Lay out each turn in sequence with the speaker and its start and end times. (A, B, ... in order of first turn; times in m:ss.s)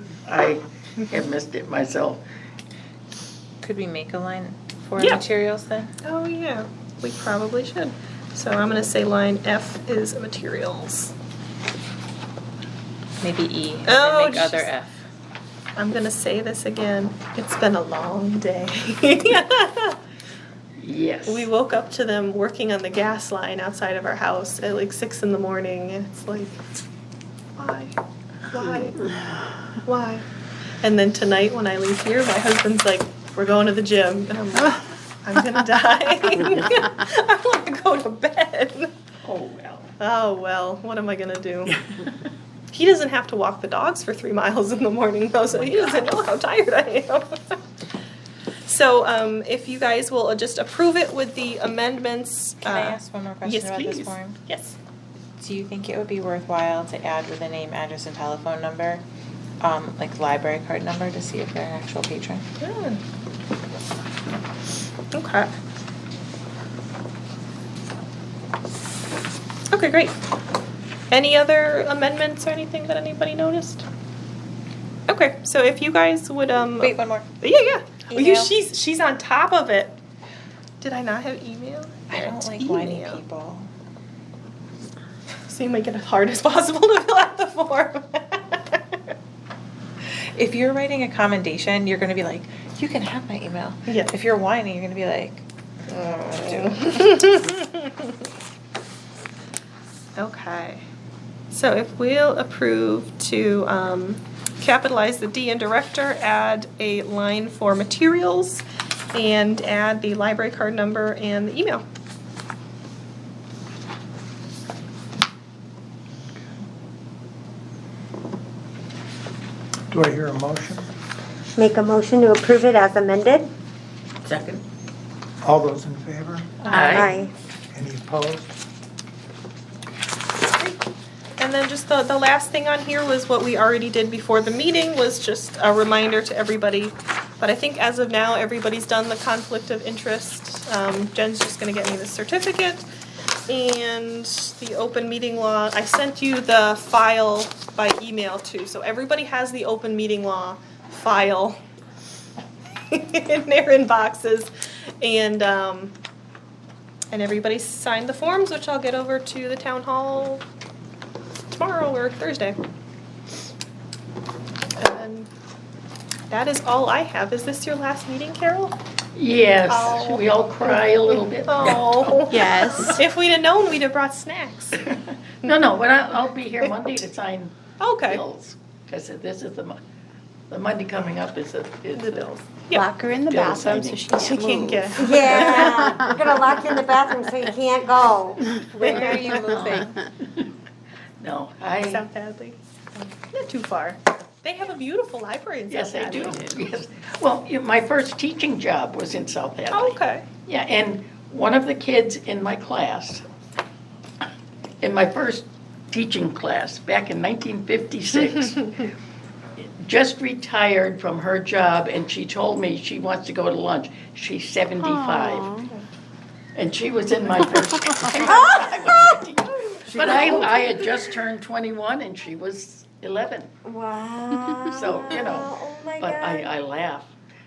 0:00.2-0:02.2 A
0:03.6-0:05.9 B
0:05.0-0:05.2 C
0:06.0-0:11.1 C
0:13.2-0:15.0 B
0:13.8-0:14.8 C
0:15.8-0:20.0 C
0:20.8-0:21.5 A
0:21.2-0:26.6 C
0:27.6-0:27.9 C
0:28.5-0:29.1 C
0:29.8-0:30.2 C
0:30.8-0:38.9 C
0:39.2-0:39.9 A
0:40.0-0:41.8 C
0:42.7-0:47.6 C
0:45.6-0:46.0 A
0:48.7-0:54.8 C
0:52.6-0:54.4 B
0:55.4-0:59.0 B
0:59.6-1:02.4 B
1:02.6-1:03.0 C
1:05.1-1:05.5 C
1:09.7-1:10.2 C
1:11.1-1:13.8 C
1:15.1-1:20.0 C
1:16.8-1:17.3 B
1:18.1-1:18.5 B
1:20.8-1:23.2 C
1:22.1-1:23.7 B
1:25.5-1:29.0 C
1:30.4-1:37.5 B
1:33.9-1:34.1 C
1:35.9-1:38.1 C
1:40.2-1:40.8 C
1:41.5-1:51.8 C
1:59.9-2:00.9 D
2:01.6-2:03.5 E
2:04.2-2:04.6 A
2:05.4-2:06.7 D
2:06.6-2:07.3 C
2:06.7-2:07.2 A
2:06.7-2:07.3 E
2:07.7-2:08.5 D
2:10.4-2:10.9 C
2:11.4-2:22.8 C
2:23.5-2:31.6 C
2:32.9-2:36.0 C
2:37.1-2:40.4 C
2:41.6-2:42.6 C
2:44.8-2:45.3 C
2:46.3-2:48.8 C
2:49.2-2:52.9 A
2:49.7-2:54.9 C
2:52.3-2:53.0 F
2:54.9-2:59.8 A
2:55.4-2:55.7 C
2:57.8-2:58.2 C
3:00.5-3:02.4 A
3:02.0-3:02.9 C
3:02.7-3:06.2 F
3:03.2-3:04.1 A
3:04.0-3:06.0 C
3:05.0-3:09.5 E
3:08.8-3:09.2 C
3:08.8-3:10.0 B
3:09.0-3:10.5 A
3:11.2-3:12.0 A
3:11.7-3:16.6 C
3:15.7-3:23.2 A
3:19.7-3:20.2 C
3:24.8-3:28.9 A
3:29.6-3:35.6 A
3:34.8-3:35.7 F
3:36.6-3:43.5 A
3:43.6-3:46.5 E
3:44.7-3:47.1 A